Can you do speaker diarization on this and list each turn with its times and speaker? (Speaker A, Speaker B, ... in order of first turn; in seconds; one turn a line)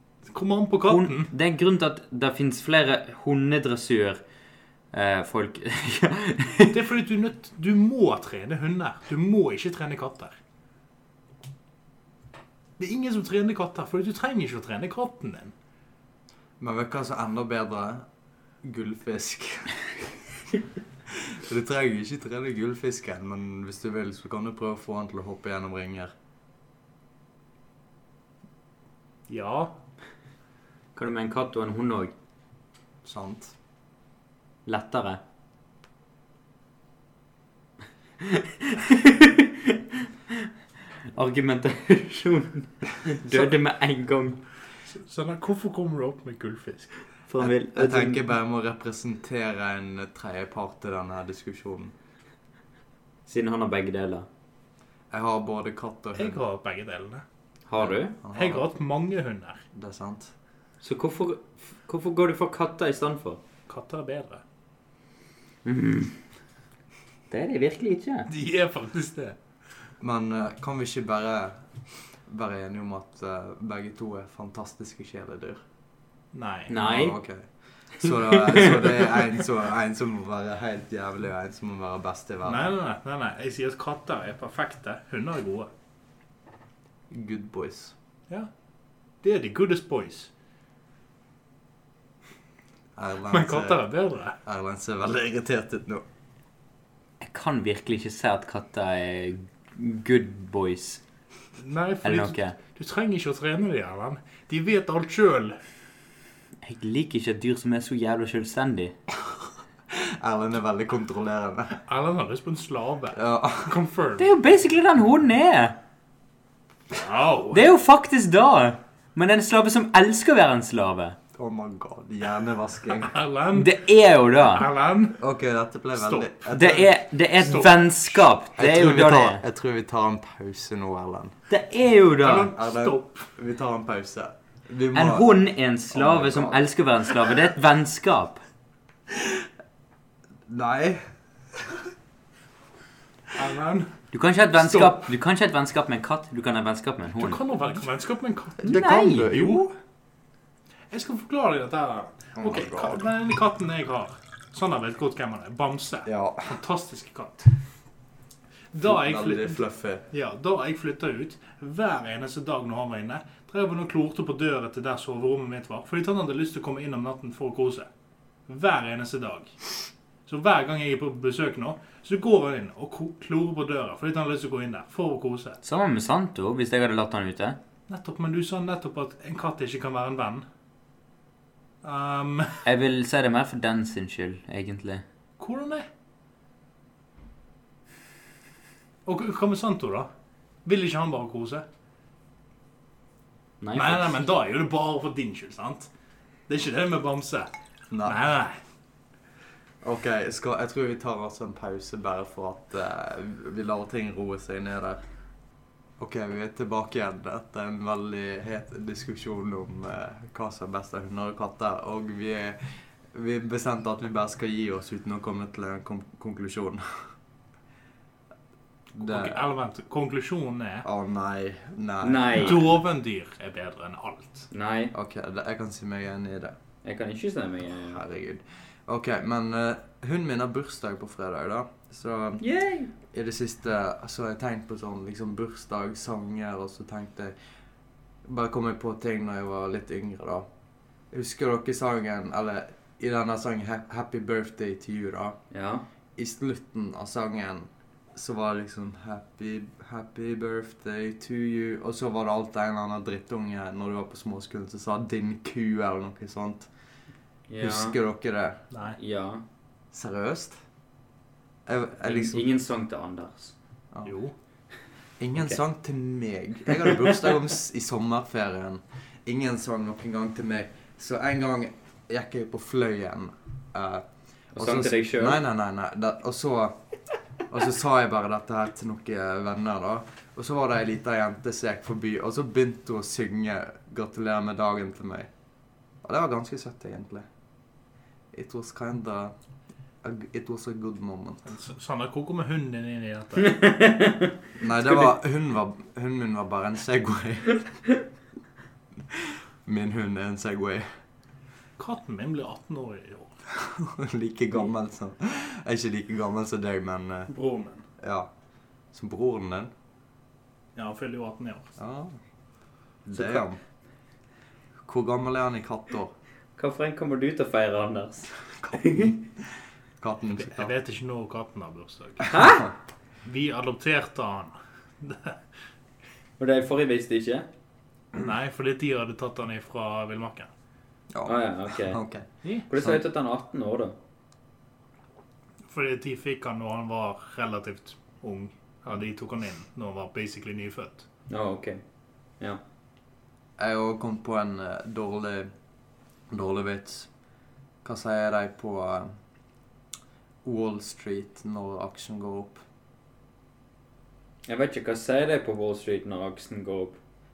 Speaker A: 0.3-1.3
Speaker B: 0.9-4.2
Speaker B: 4.9-6.8
Speaker A: 6.7-10.4
Speaker A: 12.8-15.5
Speaker C: 16.6-18.1
Speaker C: 18.6-20.2
Speaker C: 21.1-26.1
Speaker A: 29.3-29.8
Speaker B: 31.0-32.1
Speaker C: 33.0-33.5
Speaker B: 34.6-35.2
Speaker B: 38.2-40.5
Speaker B: 41.1-44.4
Speaker A: 44.9-47.0
Speaker B: 47.3-48.2
Speaker C: 47.4-51.9
Speaker B: 53.2-54.3
Speaker C: 55.1-56.4
Speaker A: 56.1-57.2
Speaker B: 57.7-58.1
Speaker C: 57.8-58.6
Speaker A: 58.3-59.6
Speaker C: 59.7-60.3
Speaker B: 60.8-63.4
Speaker A: 63.7-64.4
Speaker B: 65.6-66.2
Speaker B: 67.3-68.3
Speaker A: 68.3-69.4
Speaker C: 70.0-71.6
Speaker C: 72.2-75.6
Speaker A: 76.3-76.8
Speaker B: 76.7-77.2
Speaker C: 76.8-82.7
Speaker B: 78.0-78.9
Speaker A: 82.5-85.7
Speaker C: 87.1-88.0
Speaker A: 89.2-90.3
Speaker C: 93.0-93.8
Speaker A: 93.3-94.4
Speaker C: 94.4-96.0
Speaker B: 97.2-101.0
Speaker A: 101.5-105.6
Speaker B: 102.0-102.6
Speaker B: 106.6-109.0
Speaker C: 109.9-111.8
Speaker A: 111.9-114.3
Speaker C: 113.1-113.8
Speaker B: 114.2-115.8
Speaker A: 116.9-117.7
Speaker B: 117.5-121.2
Speaker C: 121.3-123.2
Speaker A: 123.0-125.2
Speaker B: 123.5-124.7
Speaker C: 125.2-126.9
Speaker A: 126.0-127.8
Speaker B: 126.5-129.4
Speaker C: 128.6-131.3
Speaker B: 131.5-132.5
Speaker A: 132.2-133.3
Speaker C: 132.5-135.4
Speaker B: 134.9-138.4
Speaker C: 135.9-136.6
Speaker C: 140.5-141.1
Speaker A: 143.3-143.9
Speaker B: 144.1-147.4
Speaker A: 144.6-145.0
Speaker A: 147.2-149.6
Speaker C: 148.6-149.8
Speaker B: 148.6-149.3
Speaker A: 150.9-157.6
Speaker C: 152.4-153.1
Speaker C: 156.1-156.6
Speaker A: 158.7-167.9
Speaker C: 158.8-160.1
Speaker A: 168.5-169.6
Speaker A: 170.2-175.6
Speaker B: 175.6-177.6
Speaker A: 177.9-180.4
Speaker A: 181.8-182.6
Speaker B: 182.6-185.0
Speaker A: 185.4-185.9
Speaker A: 189.1-190.1
Speaker A: 190.6-191.6
Speaker B: 193.6-194.2
Speaker A: 193.7-195.9
Speaker A: 196.5-197.5
Speaker C: 197.9-198.2
Speaker A: 198.0-198.6
Speaker C: 199.8-205.0
Speaker C: 206.0-217.1
Speaker C: 218.9-219.4
Speaker A: 219.0-220.9
Speaker C: 220.8-222.7
Speaker B: 222.0-222.7
Speaker A: 222.3-224.5
Speaker B: 224.5-224.9
Speaker C: 224.9-226.6
Speaker B: 226.8-228.0
Speaker C: 227.7-232.4
Speaker B: 232.4-232.9
Speaker C: 233.1-237.4
Speaker C: 238.2-240.5
Speaker C: 241.1-245.4
Speaker B: 245.5-245.8
Speaker C: 246.2-256.7
Speaker B: 257.5-258.0
Speaker C: 257.6-258.6
Speaker A: 258.7-259.0
Speaker B: 259.0-259.4
Speaker C: 259.9-260.6
Speaker C: 261.7-262.4
Speaker B: 262.0-263.5
Speaker C: 263.9-264.2
Speaker A: 264.0-264.3
Speaker C: 265.2-276.8
Speaker B: 266.8-267.1
Speaker B: 274.5-275.4
Speaker C: 277.5-285.3
Speaker C: 286.0-287.3
Speaker C: 288.3-289.3
Speaker C: 290.0-291.4
Speaker A: 291.5-293.6
Speaker B: 293.4-294.3
Speaker C: 294.6-297.8
Speaker C: 299.1-300.9
Speaker A: 301.8-303.4
Speaker C: 303.5-307.3
Speaker A: 307.3-307.9
Speaker C: 308.0-308.3
Speaker C: 308.9-309.7
Speaker A: 310.8-311.7
Speaker C: 311.8-312.2
Speaker C: 313.1-313.6
Speaker B: 313.1-313.4
Speaker C: 314.8-316.1
Speaker B: 316.6-319.1
Speaker C: 318.6-319.2
Speaker C: 320.0-320.7
Speaker A: 320.4-322.4
Speaker C: 322.2-322.6
Speaker B: 322.2-322.7
Speaker A: 323.2-325.4
Speaker B: 326.4-327.5
Speaker A: 328.1-330.5
Speaker C: 331.1-333.0
Speaker B: 331.2-332.0
Speaker B: 332.7-334.0
Speaker A: 335.7-341.1
Speaker B: 341.3-341.8
Speaker C: 343.6-345.5
Speaker C: 346.3-347.1
Speaker C: 347.8-349.1
Speaker C: 350.4-352.6
Speaker B: 354.5-357.0